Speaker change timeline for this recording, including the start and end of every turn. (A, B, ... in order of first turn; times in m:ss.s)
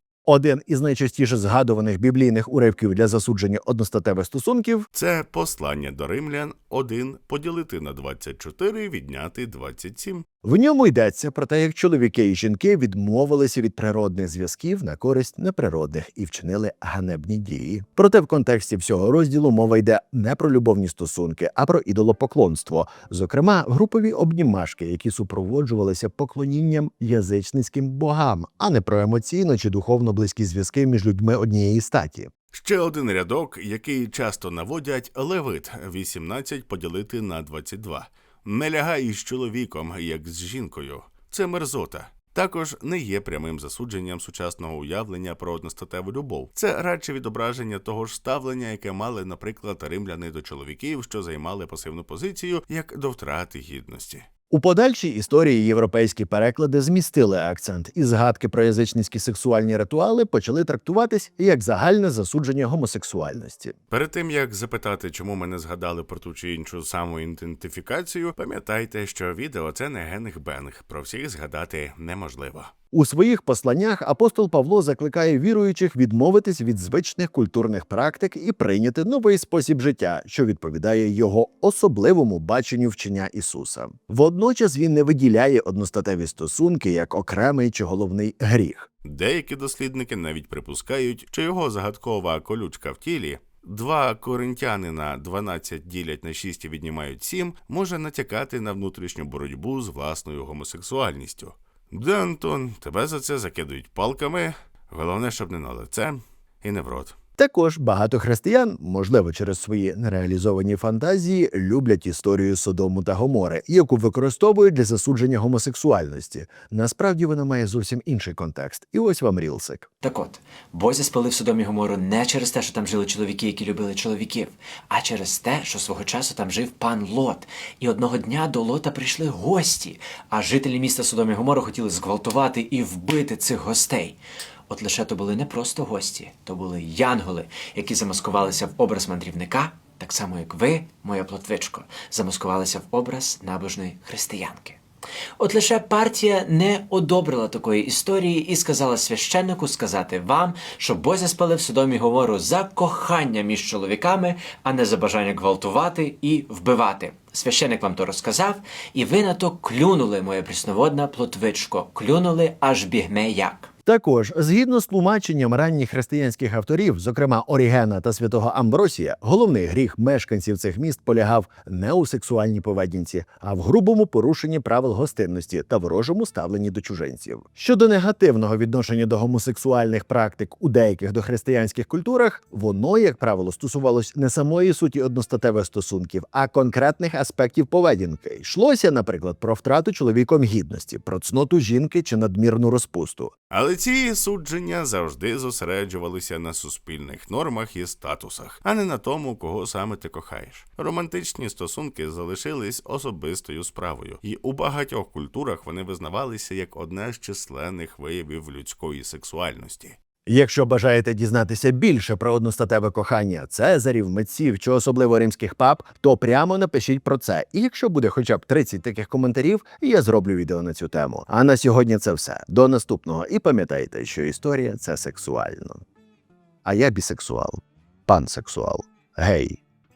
0:00.3-0:04.9 A
0:04.9-0:10.3 B
0:10.4-0:32.3 A
0:32.5-0:54.3 B
0:54.5-1:03.8 A
1:03.9-1:12.7 B
1:12.9-1:28.9 A
1:29.0-1:47.2 B
1:47.4-1:59.9 A
2:00.0-2:14.2 C
2:14.7-2:24.8 C
2:25.4-2:43.7 C
2:43.9-3:13.3 A
3:13.5-3:30.0 B
3:30.3-3:45.8 A
3:46.6-3:49.6 A